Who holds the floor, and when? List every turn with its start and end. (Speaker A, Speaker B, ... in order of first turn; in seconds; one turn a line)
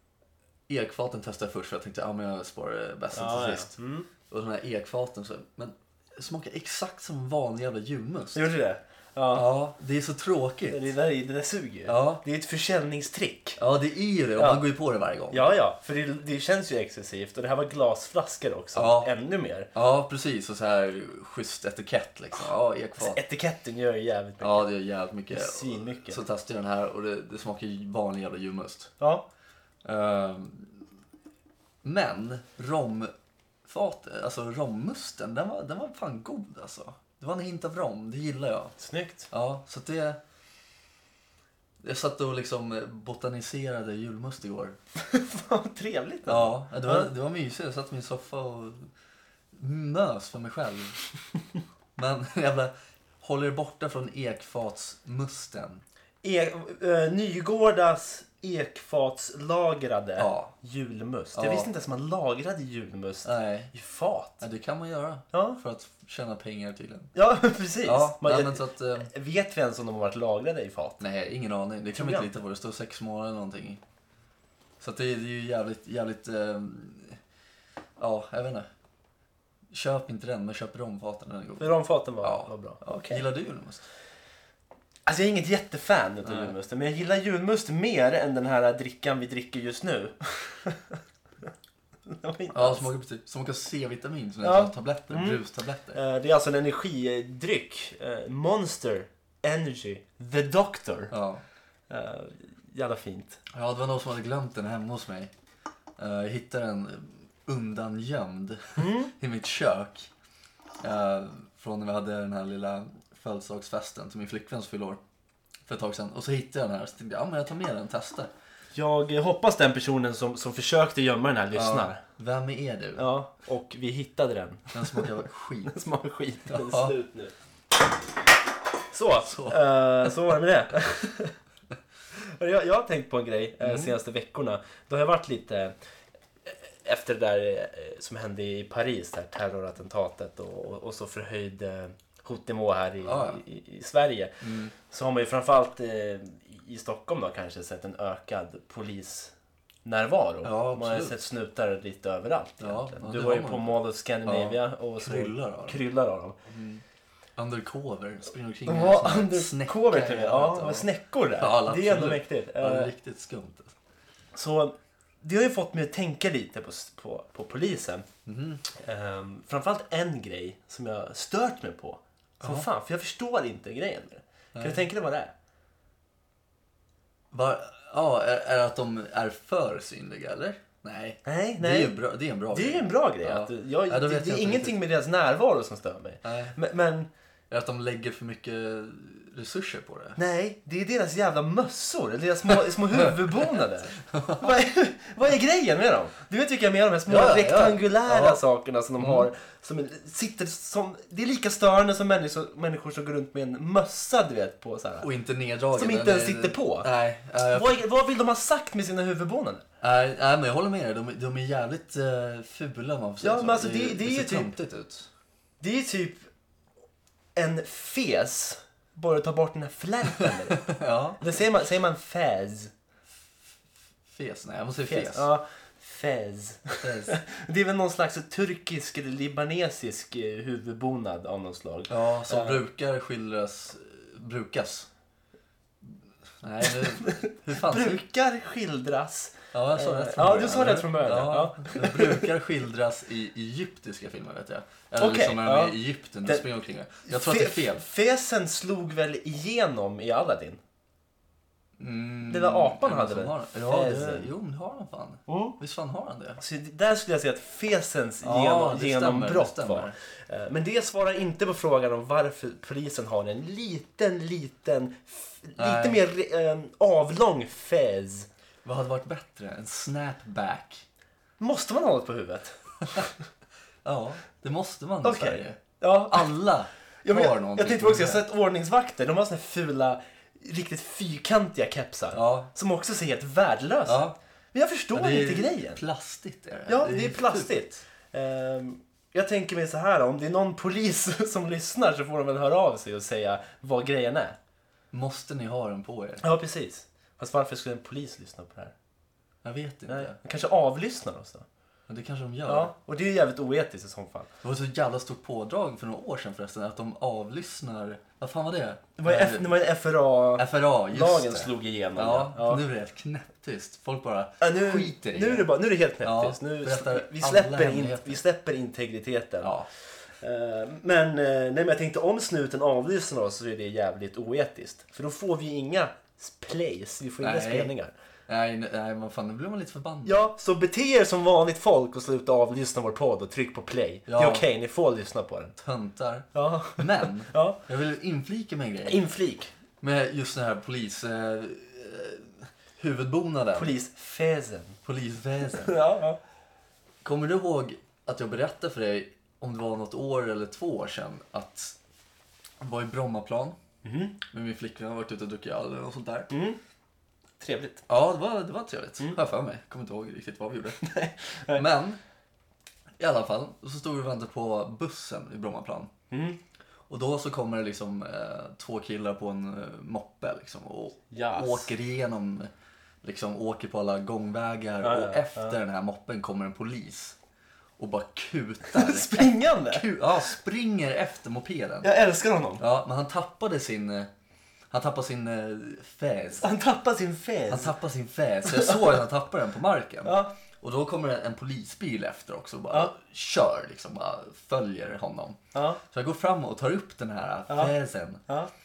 Speaker A: 0.7-8.4
Speaker B: 3.1-4.1
Speaker B: 8.3-9.5
Speaker A: 9.3-10.8
Speaker B: 10.7-13.6
Speaker A: 11.9-12.2
Speaker A: 13.6-15.5
Speaker B: 14.4-14.6
Speaker B: 15.3-19.7
Speaker A: 18.8-19.1
Speaker A: 19.7-23.2
Speaker B: 23.0-24.7
Speaker A: 24.4-28.9
Speaker B: 25.3-26.2
Speaker B: 29.0-29.2
Speaker A: 29.8-30.8
Speaker A: 31.8-33.1
Speaker A: 33.6-38.8
Speaker B: 38.8-39.3
Speaker A: 39.3-40.2
Speaker A: 41.8-44.8
Speaker B: 45.0-47.1
Speaker A: 46.3-48.9
Speaker A: 49.5-51.0
Speaker A: 52.0-55.8
Speaker B: 56.2-64.4
Speaker A: 60.2-60.5
Speaker A: 61.4-61.7
Speaker A: 63.2-63.7
Speaker A: 64.4-67.1
Speaker B: 65.3-65.6
Speaker B: 67.2-71.0
Speaker A: 67.8-69.1
Speaker A: 71.0-73.8
Speaker B: 71.9-72.3
Speaker A: 74.8-77.2
Speaker A: 78.0-78.7
Speaker A: 79.7-83.8
Speaker B: 81.6-83.2
Speaker B: 85.1-91.0
Speaker A: 86.2-86.5
Speaker B: 92.1-92.9
Speaker A: 92.5-96.0
Speaker B: 94.4-95.4
Speaker B: 95.9-101.1
Speaker A: 101.1-101.4
Speaker B: 101.9-103.4
Speaker A: 103.5-105.3
Speaker A: 106.0-110.1
Speaker B: 108.8-109.1
Speaker A: 110.8-115.0
Speaker A: 115.7-118.3
Speaker B: 118.7-122.0
Speaker A: 121.5-123.1
Speaker B: 123.0-125.1
Speaker A: 124.7-125.8
Speaker B: 125.7-127.3
Speaker A: 126.5-127.0
Speaker B: 128.9-131.4
Speaker A: 129.2-129.6
Speaker B: 132.1-135.7
Speaker A: 133.6-133.9
Speaker B: 136.5-149.3
Speaker A: 143.0-143.4
Speaker A: 144.4-144.7
Speaker B: 149.8-156.4
Speaker A: 150.4-151.2
Speaker A: 152.6-153.7
Speaker A: 154.2-155.8
Speaker A: 156.5-156.8
Speaker A: 157.4-163.7
Speaker B: 158.7-162.9
Speaker B: 164.3-168.1
Speaker A: 168.3-168.6
Speaker B: 168.8-175.3
Speaker A: 172.4-172.7
Speaker A: 174.6-174.8
Speaker A: 177.3-184.8
Speaker B: 181.2-181.9
Speaker B: 182.5-187.1
Speaker A: 186.2-186.6
Speaker A: 187.5-190.2
Speaker B: 190.2-205.1
Speaker A: 194.0-194.6
Speaker A: 197.1-198.4
Speaker A: 199.0-199.3
Speaker A: 205.0-207.8
Speaker B: 205.7-206.9
Speaker B: 207.5-209.6
Speaker A: 209.8-215.1
Speaker B: 213.2-214.6
Speaker B: 215.6-216.3
Speaker B: 217.3-222.7
Speaker A: 220.5-221.2
Speaker A: 224.1-225.3
Speaker B: 224.8-232.6
Speaker A: 226.8-227.2
Speaker A: 231.9-234.9
Speaker A: 235.8-238.0
Speaker B: 236.6-242.3
Speaker A: 239.5-247.8
Speaker B: 245.0-246.5
Speaker B: 247.1-250.6
Speaker A: 251.8-256.4
Speaker B: 252.3-254.3
Speaker B: 255.3-255.6
Speaker B: 256.4-268.3
Speaker A: 258.2-259.9
Speaker A: 265.6-266.0
Speaker A: 268.6-270.9
Speaker B: 271.4-273.1
Speaker A: 273.8-278.2
Speaker B: 275.0-276.3
Speaker B: 277.0-285.8
Speaker A: 282.1-282.5
Speaker A: 283.9-284.2
Speaker A: 284.9-287.6
Speaker B: 286.7-294.4
Speaker A: 294.9-296.2
Speaker B: 296.2-298.7
Speaker A: 299.4-300.2
Speaker B: 299.9-301.5
Speaker A: 301.9-302.7
Speaker B: 302.5-304.3
Speaker A: 304.4-309.5
Speaker B: 309.0-312.6
Speaker A: 310.4-315.5
Speaker B: 314.4-319.5
Speaker A: 316.0-318.2
Speaker A: 319.4-319.7
Speaker B: 320.1-327.9
Speaker A: 327.2-327.7
Speaker A: 328.3-330.2
Speaker B: 330.1-335.6
Speaker A: 334.1-334.5
Speaker A: 335.6-339.0
Speaker B: 336.3-337.6
Speaker B: 338.9-339.5
Speaker A: 339.8-343.8
Speaker B: 343.6-344.8
Speaker A: 344.9-345.8
Speaker B: 345.5-346.2
Speaker A: 347.0-351.8
Speaker A: 352.6-353.6
Speaker B: 353.8-354.2
Speaker A: 354.2-356.3
Speaker B: 356.3-356.6
Speaker B: 357.4-357.8
Speaker A: 357.9-360.8
Speaker B: 360.8-361.6
Speaker A: 361.5-362.0
Speaker A: 363.0-365.9
Speaker B: 366.1-366.4
Speaker A: 366.9-372.5
Speaker B: 371.1-371.7
Speaker A: 373.0-377.2
Speaker B: 374.8-375.6
Speaker A: 377.8-381.9
Speaker B: 378.6-379.9
Speaker B: 381.8-382.6
Speaker A: 382.6-384.1
Speaker A: 384.7-386.5
Speaker B: 386.4-387.8
Speaker A: 387.5-398.2
Speaker B: 388.5-388.8
Speaker B: 390.1-390.4
Speaker B: 395.5-395.8